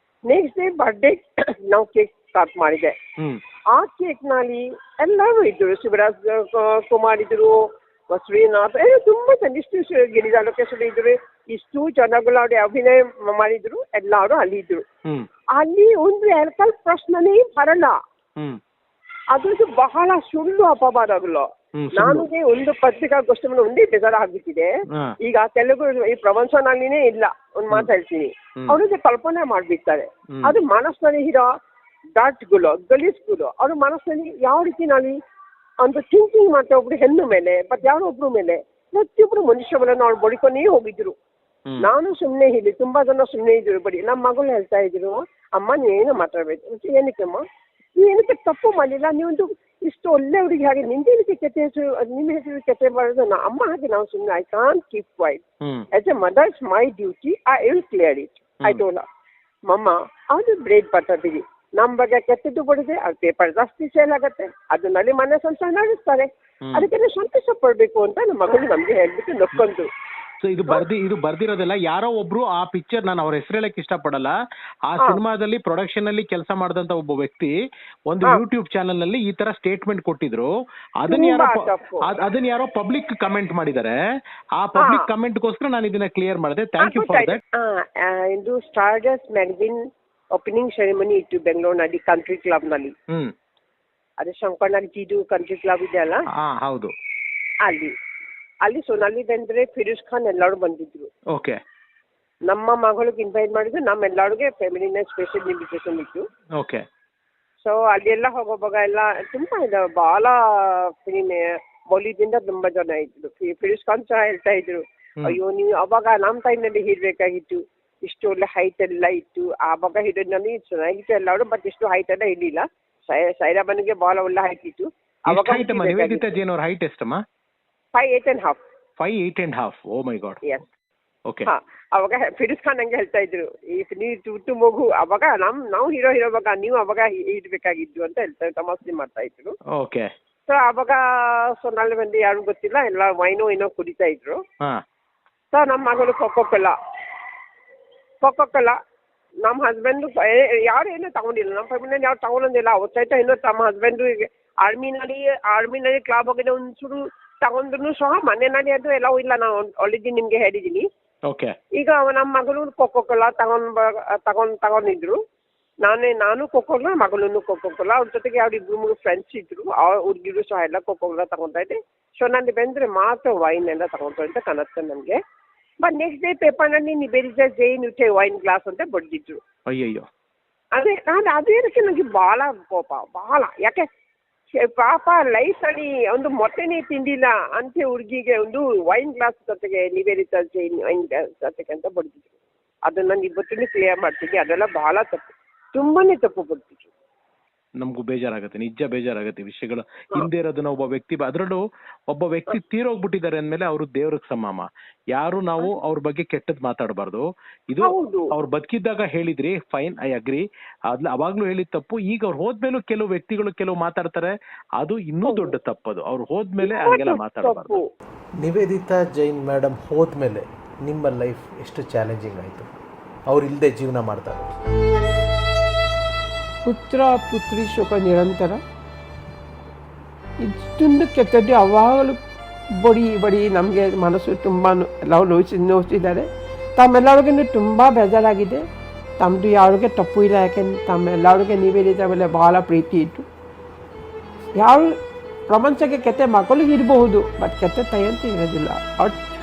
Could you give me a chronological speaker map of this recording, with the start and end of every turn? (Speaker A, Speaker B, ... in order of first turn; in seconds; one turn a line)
Speaker A: 0.3-3.0
Speaker A: 3.8-14.8
Speaker A: 15.6-17.9
Speaker A: 19.3-24.7
Speaker B: 21.8-22.3
Speaker A: 25.2-31.5
Speaker A: 32.2-35.1
Speaker A: 35.8-41.1
Speaker A: 41.8-47.4
Speaker A: 48.0-55.4
Speaker A: 55.9-59.0
Speaker A: 59.7-69.9
Speaker B: 70.4-74.3
Speaker B: 74.9-77.5
Speaker B: 78.1-84.0
Speaker A: 81.1-82.1
Speaker B: 84.6-87.4
Speaker A: 84.8-85.1
Speaker A: 86.8-89.8
Speaker A: 90.4-92.9
Speaker A: 94.2-96.2
Speaker B: 96.4-96.9
Speaker A: 97.7-97.9
Speaker A: 98.7-101.1
Speaker B: 101.3-101.6
Speaker A: 102.5-106.2
Speaker B: 106.6-106.8
Speaker A: 107.6-126.3
Speaker B: 125.3-127.2
Speaker A: 128.0-128.6
Speaker B: 129.0-130.4
Speaker A: 131.5-139.6
Speaker B: 139.7-140.1
Speaker A: 140.5-144.4
Speaker A: 145.5-146.7
Speaker A: 148.2-148.7
Speaker A: 149.4-160.8
Speaker A: 161.8-165.2
Speaker A: 165.8-175.2
Speaker A: 175.8-179.4
Speaker B: 179.7-180.1
Speaker A: 180.8-183.8
Speaker A: 184.6-192.3
Speaker A: 192.9-196.9
Speaker B: 197.8-217.8
Speaker A: 207.8-208.3
Speaker A: 215.3-215.5
Speaker A: 216.6-217.8
Speaker C: 218.4-222.7
Speaker C: 223.3-224.5
Speaker D: 226.6-228.6
Speaker D: 230.4-232.2
Speaker D: 232.8-238.6
Speaker D: 239.2-243.3
Speaker D: 244.6-245.0
Speaker D: 245.5-249.2